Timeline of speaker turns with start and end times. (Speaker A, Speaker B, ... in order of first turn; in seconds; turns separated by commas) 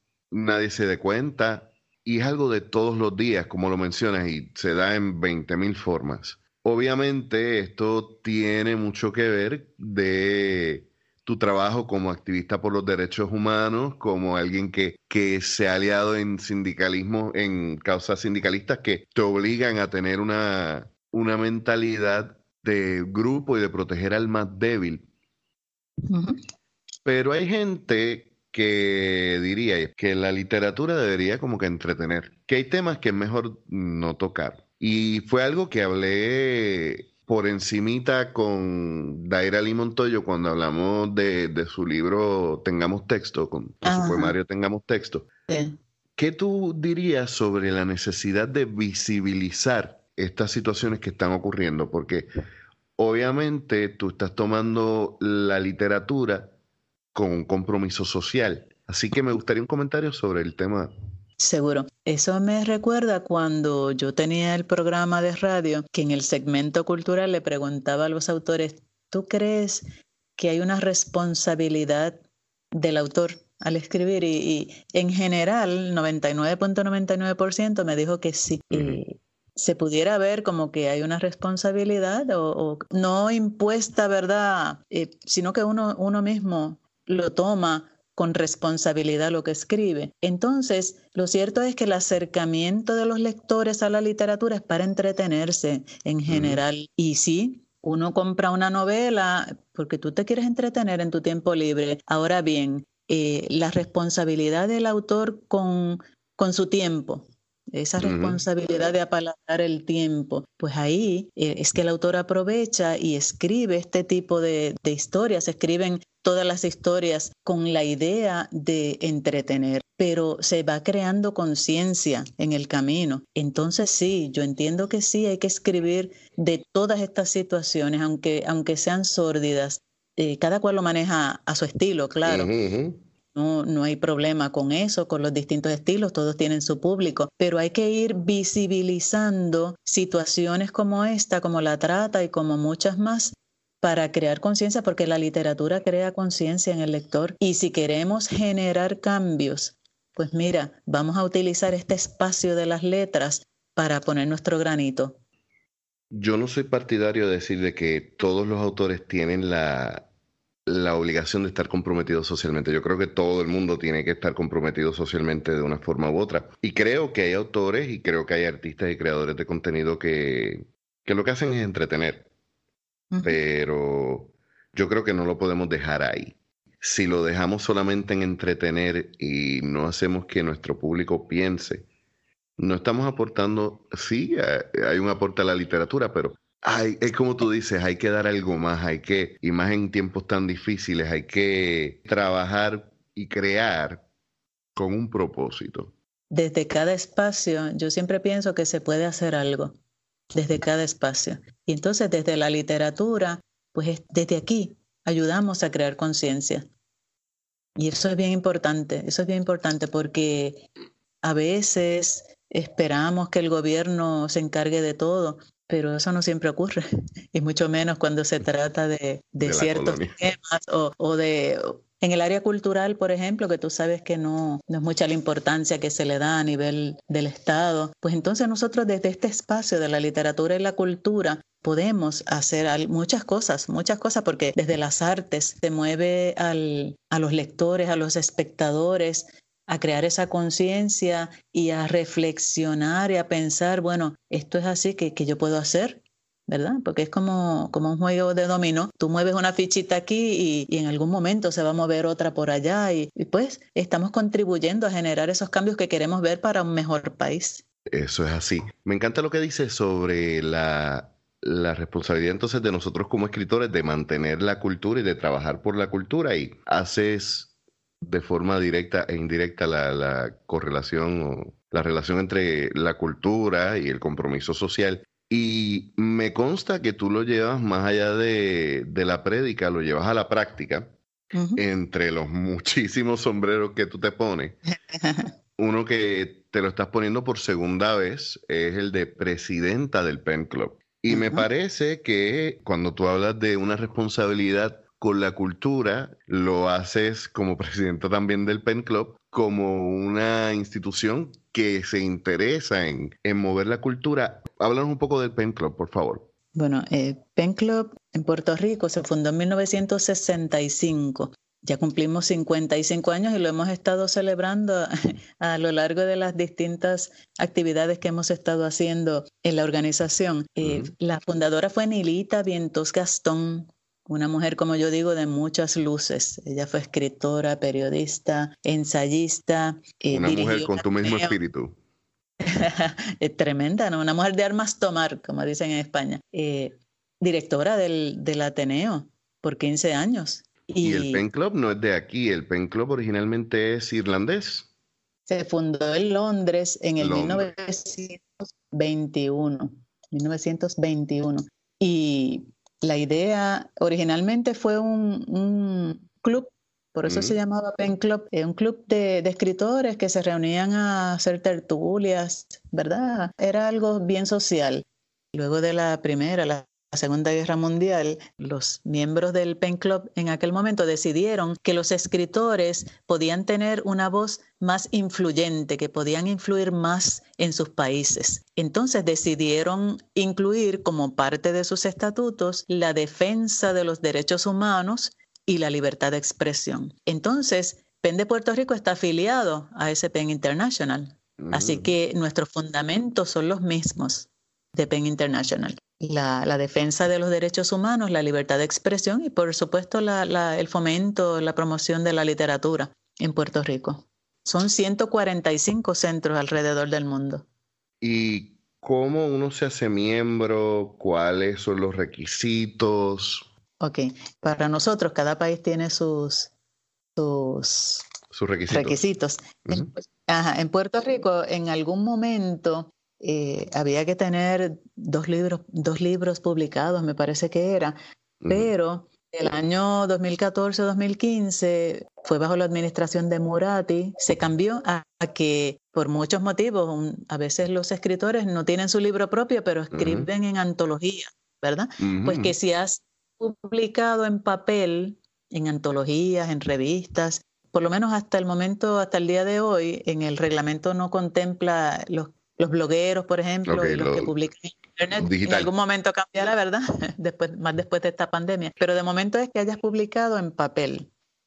Speaker A: 0.3-25.1, Speaker B: 26.0-26.4, Speaker A: 27.0-45.3, Speaker B: 43.8-44.3, Speaker B: 45.5-45.8, Speaker A: 46.2-52.3, Speaker A: 53.0-56.5, Speaker A: 57.1-60.9, Speaker B: 61.4-72.2, Speaker B: 72.7-132.5, Speaker A: 78.7-79.0, Speaker A: 96.3-96.6, Speaker A: 108.0-108.4, Speaker A: 132.2-133.0, Speaker B: 133.3-155.2, Speaker A: 156.1-160.1, Speaker A: 160.7-172.3, Speaker B: 173.1-173.4, Speaker A: 173.2-181.9, Speaker A: 182.6-194.0, Speaker A: 194.8-195.9, Speaker B: 196.3-199.8, Speaker B: 200.3-206.7, Speaker B: 207.8-210.6, Speaker B: 211.2-216.8, Speaker B: 217.3-257.6, Speaker A: 219.4-220.2, Speaker A: 257.9-267.5, Speaker A: 268.0-280.9, Speaker B: 281.3-281.6, Speaker A: 281.6-284.6, Speaker B: 284.9-285.3, Speaker A: 285.6-306.3, Speaker B: 291.1-291.5, Speaker B: 306.5-331.4, Speaker A: 320.6-320.9, Speaker A: 330.1-331.8, Speaker B: 332.4-341.2, Speaker A: 340.8-344.7, Speaker B: 345.3-407.4, Speaker A: 347.0-347.5, Speaker A: 357.1-357.4, Speaker A: 391.4-391.9, Speaker A: 408.0-413.5, Speaker B: 413.8-416.5, Speaker B: 417.2-418.1, Speaker A: 418.3-419.0, Speaker B: 418.7-427.9, Speaker A: 428.4-428.7, Speaker B: 428.5-461.1, Speaker A: 439.9-440.3, Speaker A: 442.0-442.5, Speaker A: 453.7-454.3, Speaker A: 455.2-455.7